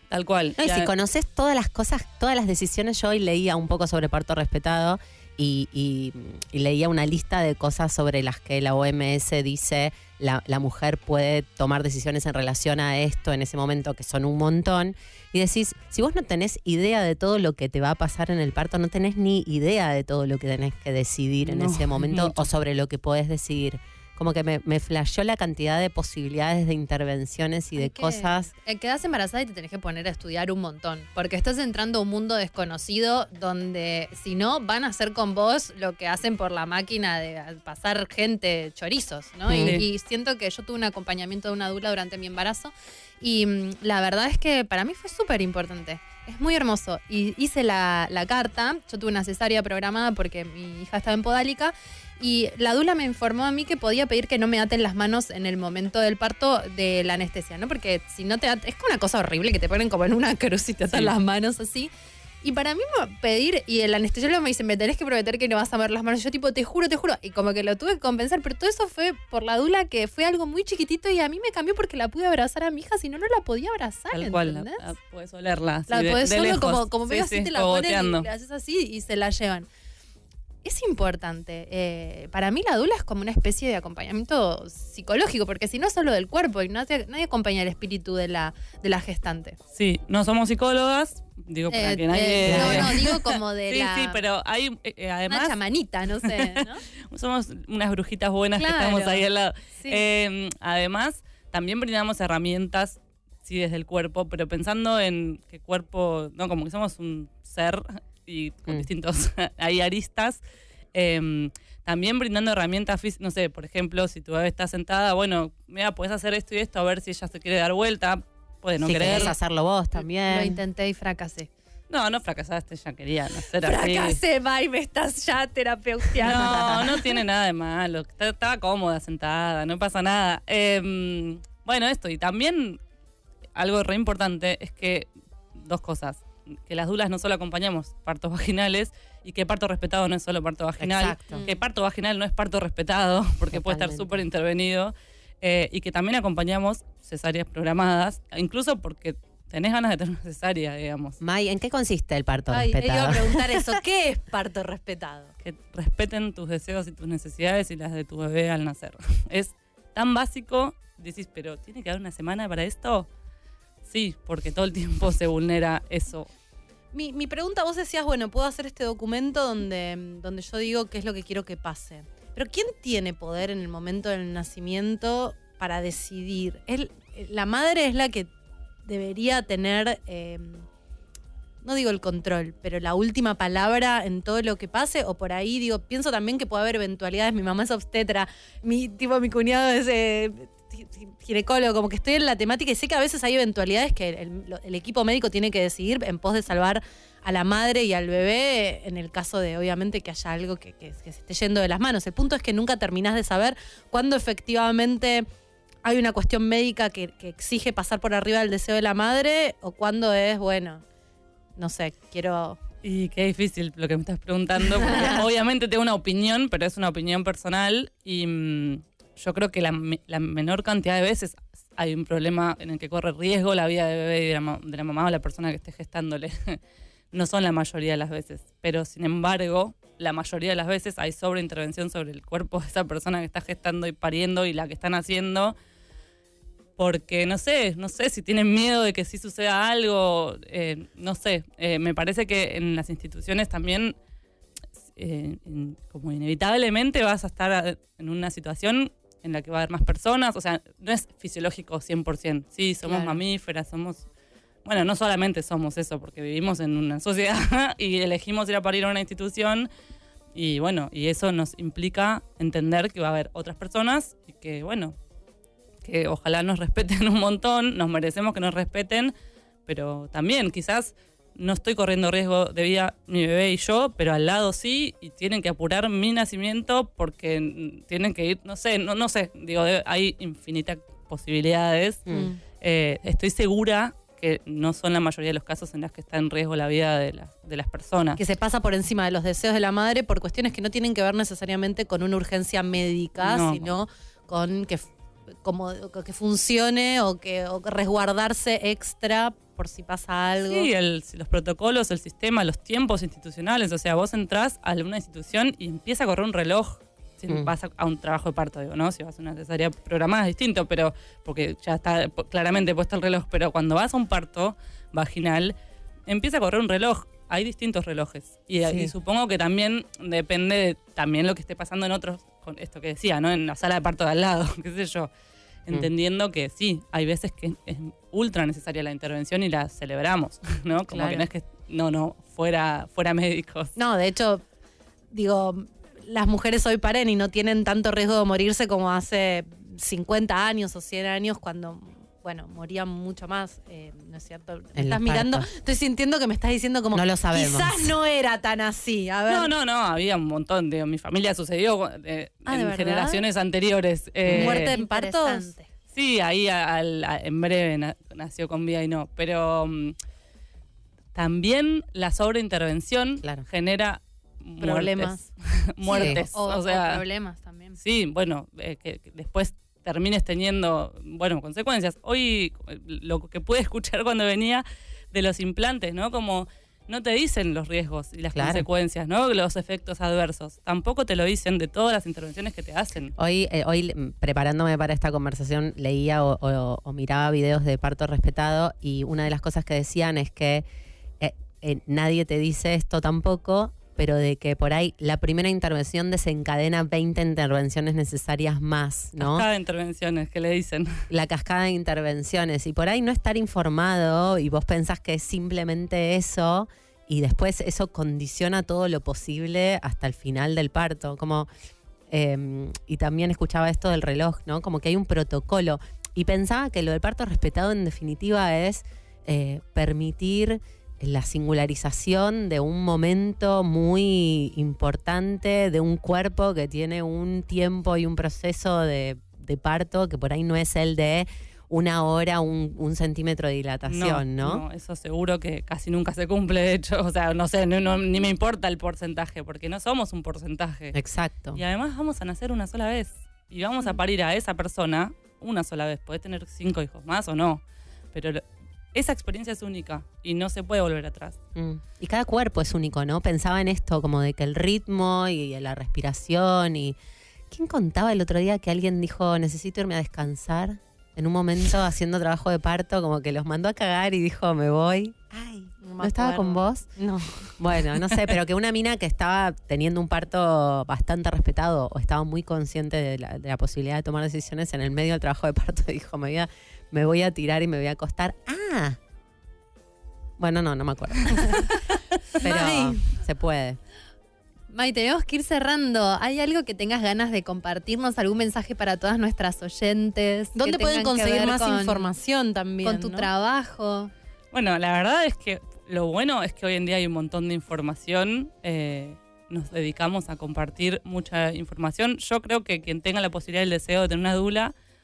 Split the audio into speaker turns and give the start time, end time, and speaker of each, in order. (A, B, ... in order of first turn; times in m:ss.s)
0:00.1-0:00.9 A
0:00.6-0:28.5 B
0:21.4-0:22.5 A
0:27.8-1:01.9 C
0:39.5-0:39.8 B
0:39.6-0:39.8 A
1:00.9-1:01.1 A
1:02.4-1:14.8 C
1:14.1-1:18.3 A
1:15.9-1:19.7 C
1:20.6-1:29.6 C
1:29.7-1:35.6 A
1:31.7-1:34.2 C
1:32.4-1:32.9 B
1:35.3-1:36.8 C
1:36.2-1:50.4 A
1:38.6-1:39.2 C
1:50.9-1:59.3 A
1:58.8-2:00.6 B
1:59.1-1:59.3 C
2:00.0-2:01.5 C
2:01.9-2:04.2 A
2:03.6-2:07.1 C
2:06.2-2:12.8 A
2:06.4-2:06.8 B
2:13.6-2:31.2 A
2:20.8-2:21.4 B
2:23.5-2:24.2 B
2:31.2-2:33.6 B
2:32.5-2:35.3 D
2:35.4-2:43.1 A
2:43.8-2:46.3 A
2:46.9-2:58.3 D
2:58.8-3:00.7 D
3:01.6-3:25.3 D
3:25.8-3:30.8 D
3:31.6-3:32.6 D
3:32.8-3:46.6 A
3:47.1-3:55.5 A
3:56.8-4:03.9 A
4:04.9-4:14.0 A
4:12.9-4:13.1 C
4:14.6-4:19.7 A
4:20.3-4:25.0 A
4:25.8-4:29.1 A
4:29.6-4:48.2 A
4:42.0-4:42.3 B
4:42.1-4:42.4 D
4:48.2-4:54.9 D
4:53.2-4:53.7 A
4:55.4-5:00.7 D
5:00.5-5:15.5 A
5:16.1-5:25.1 A
5:18.6-5:18.9 B
5:25.6-5:33.7 A
5:30.9-5:31.2 D
5:33.7-5:34.4 D
5:35.1-5:49.5 D
5:44.8-5:45.4 B
5:46.9-5:47.9 B
5:49.3-5:54.7 A
5:52.4-5:53.2 D
5:54.3-5:55.5 D
5:54.4-5:55.7 C
5:55.9-5:59.9 A
6:01.1-6:07.0 A
6:04.6-6:05.2 D
6:05.8-6:07.8 C
6:06.0-6:06.2 B
6:07.8-6:23.1 A
6:18.3-6:18.7 B
6:23.2-6:30.6 B
6:31.2-6:39.5 B
6:39.2-6:41.0 A
6:41.1-6:51.5 B
6:52.1-7:14.6 B
7:13.9-7:21.0 A
7:20.9-7:21.6 B
7:21.5-7:31.4 A
7:31.5-7:37.0 B
7:37.5-7:46.9 B
7:45.3-7:47.6 D
7:47.6-7:59.0 B
8:00.4-8:01.6 B
8:02.4-8:03.1 D
8:02.4-8:03.8 B
8:04.7-8:12.1 C
8:10.5-8:13.3 D
8:12.8-8:14.1 C
8:14.5-8:24.7 A